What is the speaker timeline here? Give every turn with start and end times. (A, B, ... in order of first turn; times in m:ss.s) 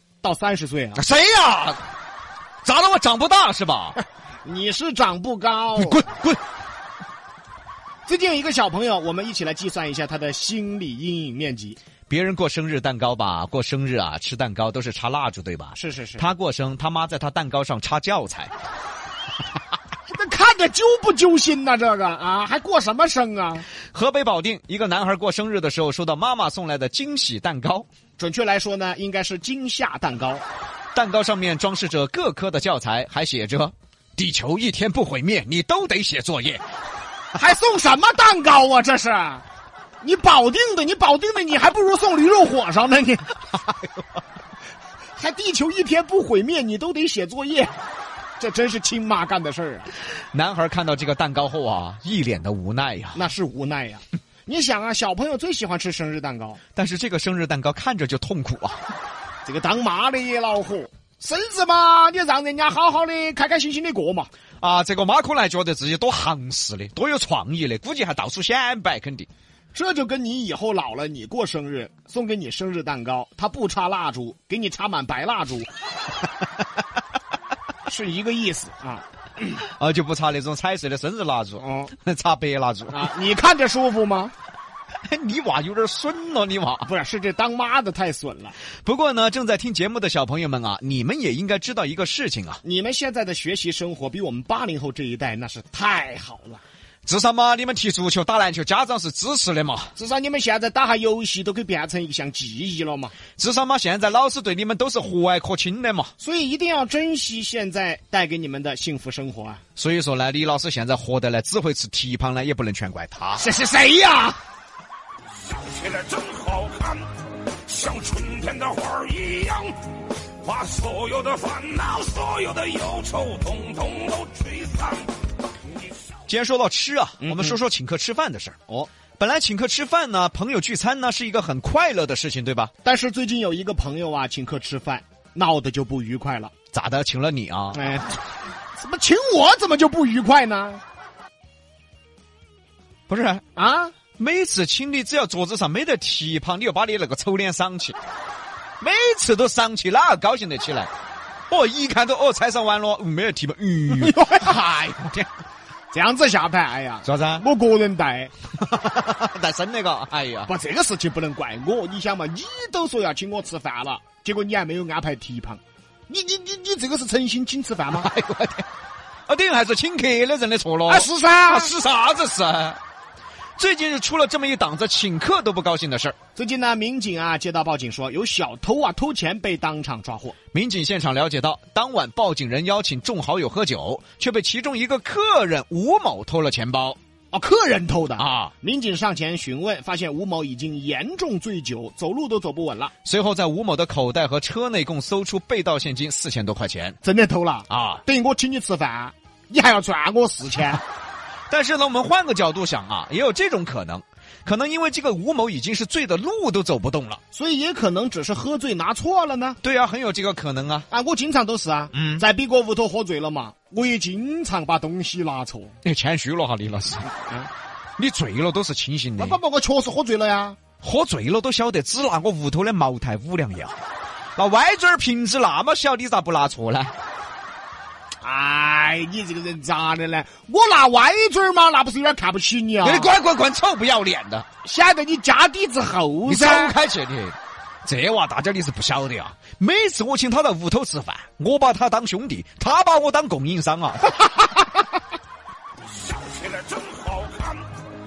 0:00.2-0:01.0 A
0:01.0-0:01.8 B
0:02.6-0:04.0 B
0:04.4-0:06.1 A
0:05.8-0:06.4 B
0:08.1-0:11.8 A
0:12.1-0:18.5 B
0:15.8-0:16.3 A
0:20.1-0:23.7 A
0:23.9-0:27.9 B
0:28.2-0:30.4 A
0:30.9-0:36.6 B
0:37.4-0:39.4 A
0:40.0-0:43.3 A
0:45.2-0:47.8 A
0:48.4-0:49.9 A
0:50.3-0:53.3 B
0:53.1-0:56.6 A
0:56.8-0:58.8 B
0:59.4-1:04.3 A
1:04.6-1:09.3 B
1:09.7-1:15.7 A
1:17.9-1:19.0 A
1:19.6-1:23.1 B
1:21.6-1:21.9 A
1:22.9-1:24.3 A
1:25.0-1:26.9 B
1:26.9-1:28.6 A
1:28.8-1:32.6 B
1:32.6-1:36.6 A
1:37.1-1:39.9 B
1:40.0-1:43.2 A
1:43.4-1:46.1 B
1:46.2-1:49.6 A
1:49.8-1:53.5 B
1:53.4-1:54.4 A
1:55.5-1:57.1 C
1:57.7-1:59.7 C
2:00.4-2:05.0 C
2:06.3-2:08.6 B
2:07.2-2:07.6 A
2:09.2-2:12.7 B
2:12.8-2:16.5 A
2:16.7-2:17.9 B
2:17.7-2:18.2 A
2:18.8-2:20.8 A
2:23.1-2:23.4 B
2:23.6-2:23.9 A
2:24.2-2:28.0 B
2:28.8-2:30.9 B
2:31.5-2:35.3 B
2:34.0-2:34.5 A
2:35.9-2:38.3 A
2:37.0-2:37.5 B
2:38.6-2:40.5 B
2:40.5-2:48.1 A
2:48.0-2:48.7 B
2:49.3-2:52.8 B
2:50.9-2:51.7 A
2:53.6-2:56.2 B
2:56.4-3:00.4 A
3:00.5-3:07.0 B
3:07.3-3:12.9 A
3:08.2-3:08.5 B
3:13.0-3:17.0 B
3:17.0-3:20.8 A
3:17.7-3:18.0 B
3:21.5-3:27.2 B
3:27.3-3:29.6 A
3:29.6-3:30.9 B
3:30.9-3:35.8 A
3:31.9-3:32.2 B
3:35.8-3:37.1 B
3:38.0-3:39.4 B
3:39.2-3:40.6 A
3:40.8-3:43.8 B
3:44.4-3:46.9 B
3:48.2-3:53.2 A
3:52.8-3:54.5 B
3:54.6-3:56.7 A
3:56.3-4:04.2 B
4:06.0-4:07.7 C